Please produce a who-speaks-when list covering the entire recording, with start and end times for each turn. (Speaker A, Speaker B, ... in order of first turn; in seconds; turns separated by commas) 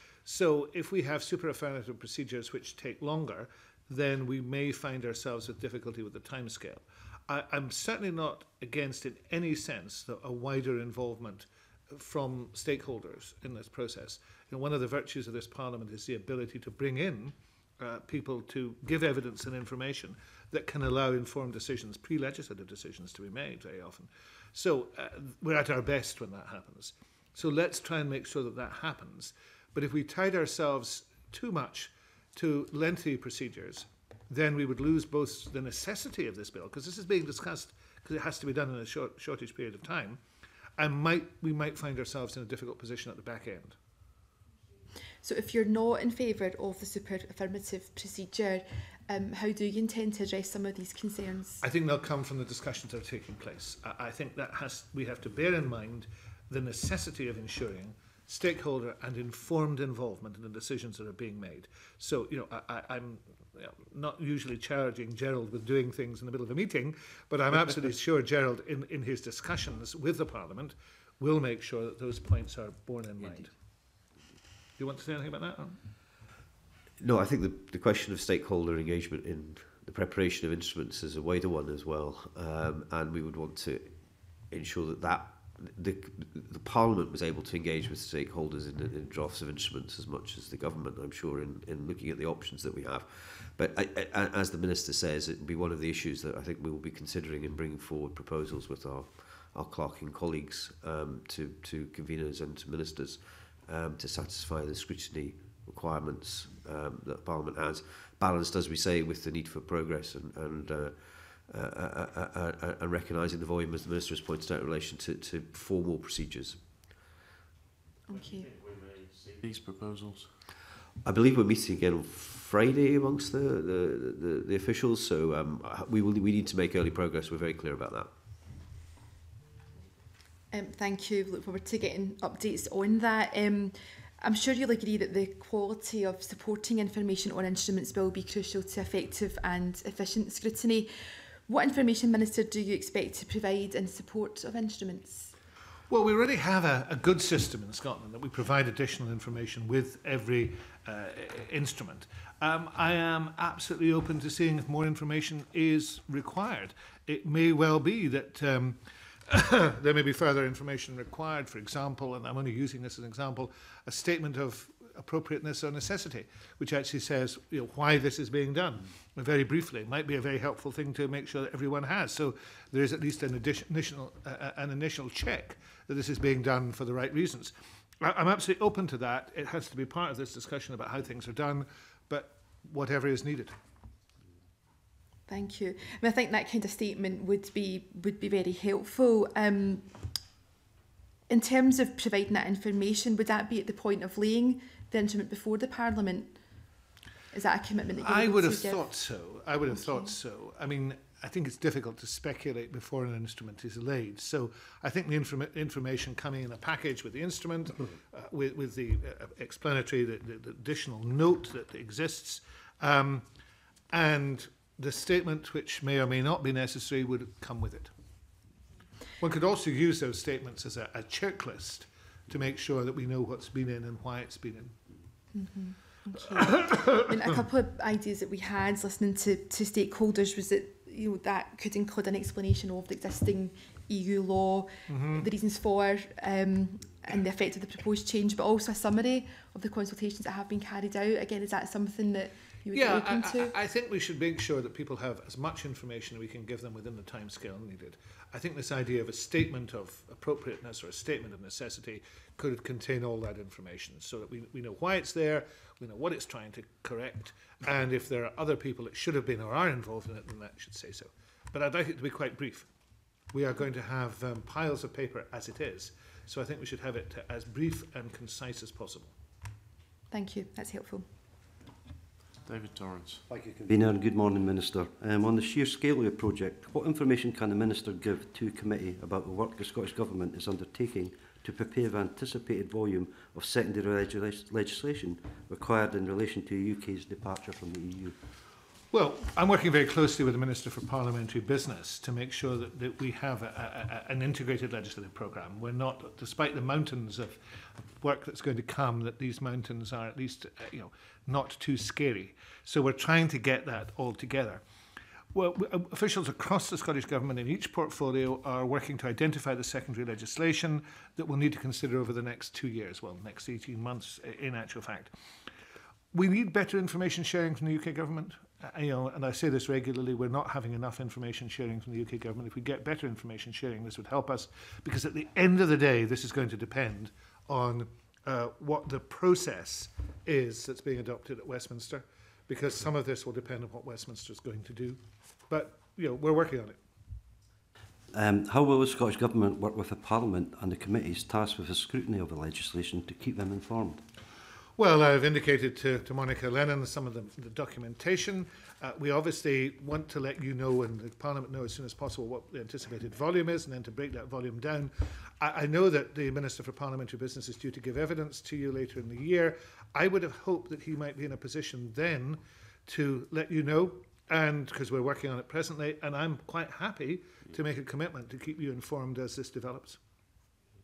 Speaker A: 0.3-40.2, Speaker A: 40.8-43.8, Speaker B: 45.2-51.6, Speaker A: 51.6-73.5, Speaker A: 74.8-75.8, Speaker C: 77.0-117.1, Speaker B: 118.1-118.5, Speaker D: 118.2-120.4, Speaker C: 121.0-128.1, Speaker B: 130.5-140.9, Speaker B: 141.5-145.3, Speaker A: 145.9-183.6, Speaker B: 185.3-190.0, Speaker B: 191.3-196.4, Speaker B: 197.3-198.8, Speaker A: 198.0-213.3, Speaker B: 199.7-200.1, Speaker A: 213.9-217.9, Speaker A: 219.2-224.8, Speaker B: 225.3-243.5, Speaker A: 226.5-227.0, Speaker A: 234.9-235.3, Speaker A: 242.7-262.7, Speaker A: 263.3-269.1, Speaker B: 270.1-271.1, Speaker D: 272.4-273.2, Speaker E: 273.3-288.2, Speaker A: 288.9-304.6, Speaker A: 305.3-315.1, Speaker A: 316.1-336.8, Speaker E: 338.1-344.1, Speaker A: 344.8-370.0